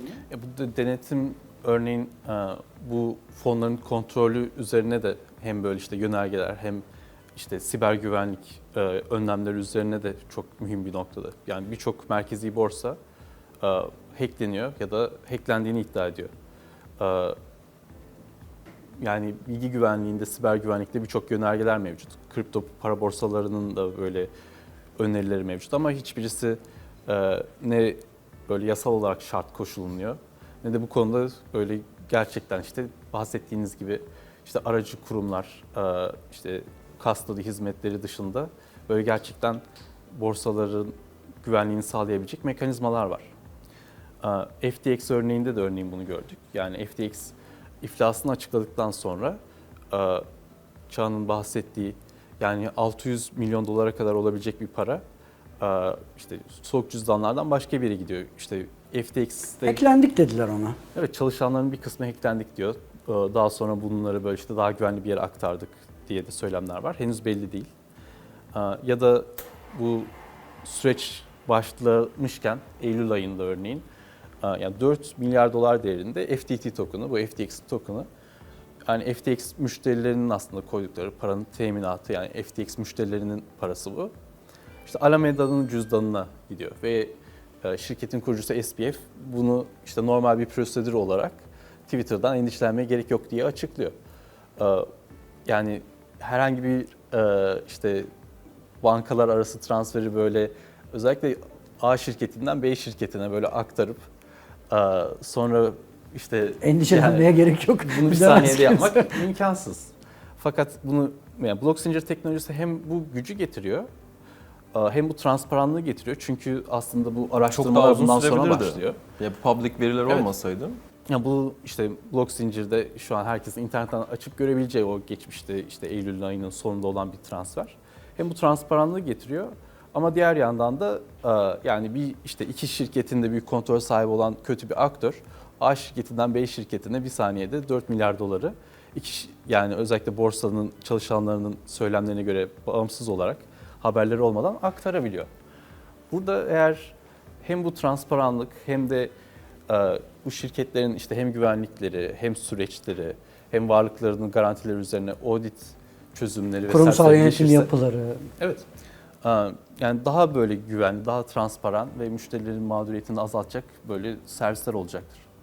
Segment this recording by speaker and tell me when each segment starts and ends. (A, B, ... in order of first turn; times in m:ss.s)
0:00.3-0:13.0 A
0:13.6-0:16.3 A
0:17.0-0:17.4 A
0:19.0-0:24.3 A
0:25.0-0:43.3 A
0:44.2-0:49.4 A
0:49.9-0:50.2 A
0:50.9-0:55.0 A
0:55.6-0:59.8 A
0:59.6-1:00.8 B
1:00.9-1:07.7 A
1:08.5-1:10.1 A
1:10.6-1:13.8 A
1:14.4-1:18.1 A
1:18.8-1:24.1 A
1:24.8-1:33.9 A
1:34.6-1:34.9 A
1:35.4-1:38.1 A
1:38.8-1:44.0 A
1:44.7-1:47.3 A
1:46.6-1:49.2 B
1:47.8-1:53.9 A
1:54.7-1:59.0 A
1:57.4-2:00.8 C
2:01.1-2:25.3 A
2:26.1-2:29.1 A
2:29.7-2:37.7 A
2:36.7-2:38.2 B
2:38.4-2:38.6 A
2:39.2-2:45.2 A